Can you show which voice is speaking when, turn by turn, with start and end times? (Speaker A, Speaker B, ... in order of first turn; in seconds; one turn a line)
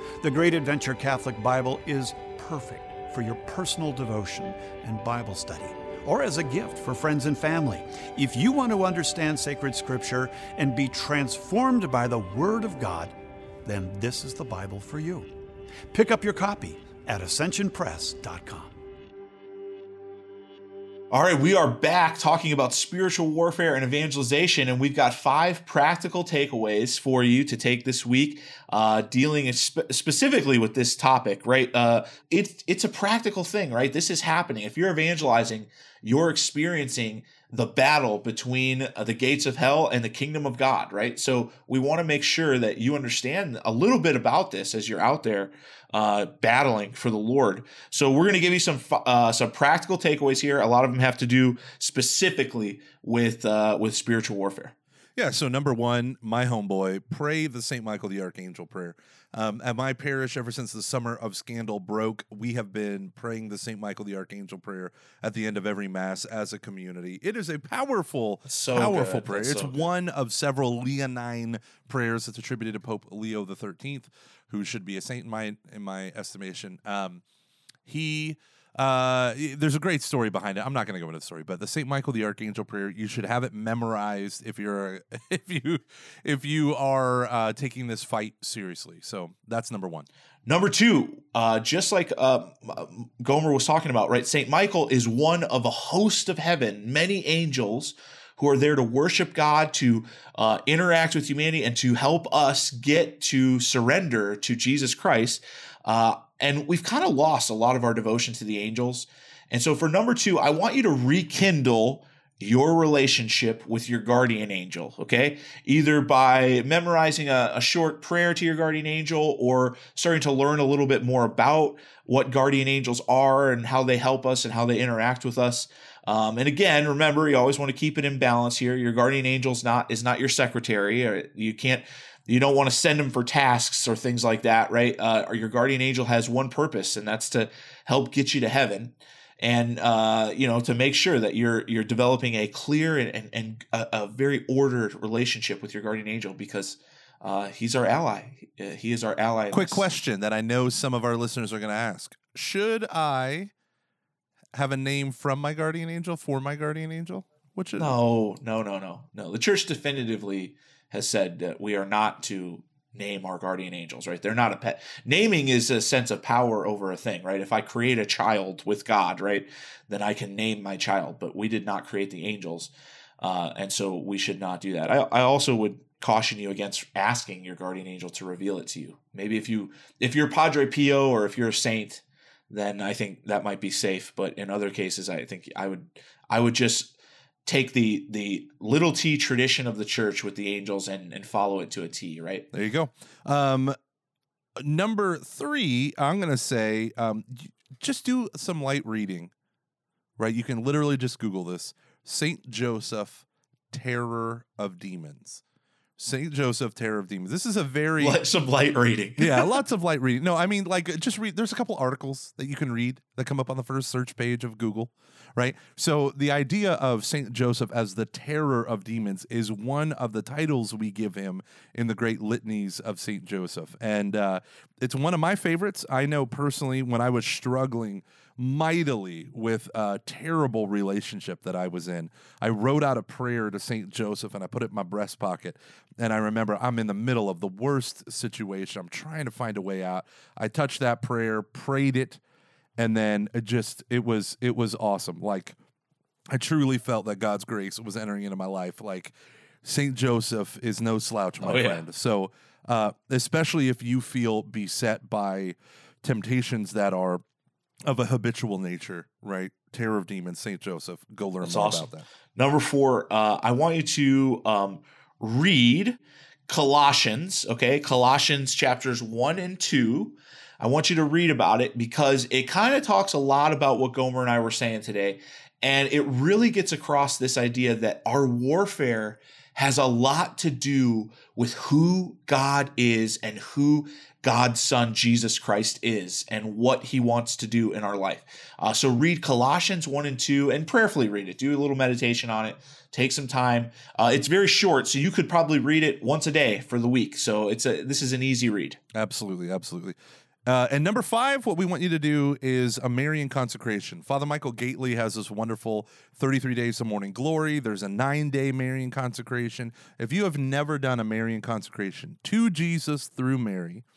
Speaker A: 0.2-15.3
Speaker A: 15.9-18.7
Speaker B: 21.1-54.7
Speaker C: 55.1-77.2
Speaker B: 68.5-69.9
Speaker C: 77.8-90.1
Speaker B: 90.5-149.9
Speaker C: 149.5-153.5
Speaker C: 154.5-157.9
Speaker B: 157.8-192.4
Speaker C: 192.5-193.8
Speaker C: 194.6-199.3
Speaker C: 200.2-205.4
Speaker C: 206.0-208.2
Speaker B: 208.0-209.6
Speaker C: 209.2-242.2
Speaker C: 242.8-245.6
Speaker C: 246.3-257.2
Speaker B: 251.4-251.8
Speaker C: 257.9-262.1
Speaker B: 261.4-298.8
Speaker C: 298.9-313.8